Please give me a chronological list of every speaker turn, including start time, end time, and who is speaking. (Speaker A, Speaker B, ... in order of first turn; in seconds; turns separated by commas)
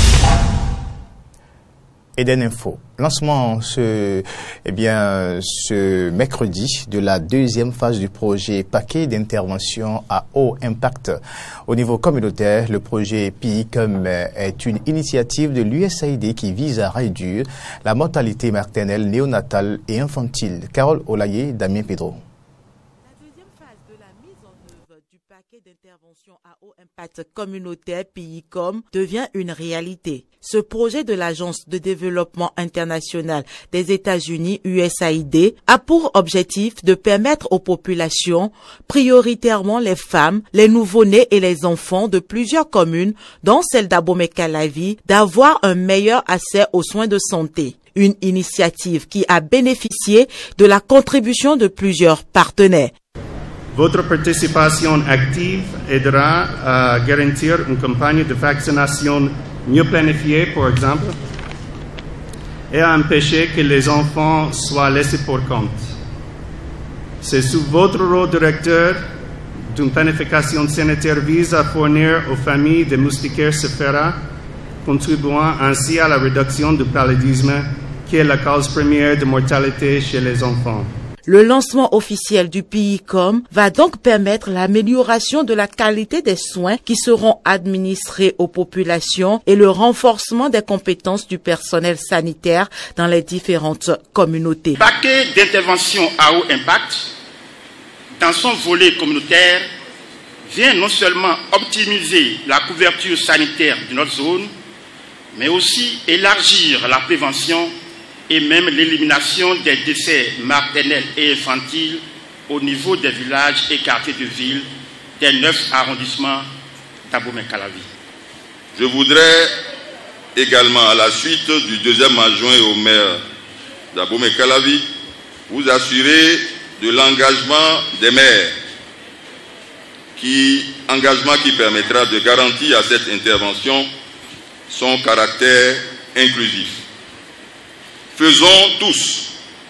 Speaker A: 2.1-22.2, Speaker B: 23.1-52.9, Speaker C: 53.7-61.1, Speaker C: 62.7-65.9, Speaker C: 67.2-69.0, Speaker C: 69.7-74.2, Speaker C: 74.8-80.9, Speaker B: 81.2-94.8, Speaker D: 94.8-97.1, Speaker D: 98.2-99.7, Speaker D: 100.5-104.5, Speaker D: 105.3-107.7, Speaker D: 108.3-114.7, Speaker D: 115.2-116.5, Speaker D: 117.1-117.9, Speaker E: 118.7-119.5, Speaker E: 120.3-123.2, Speaker E: 123.9-124.9, Speaker E: 125.5-128.6, Speaker E: 130.2-133.9, Speaker E: 134.7-136.8, Speaker E: 138.1-139.4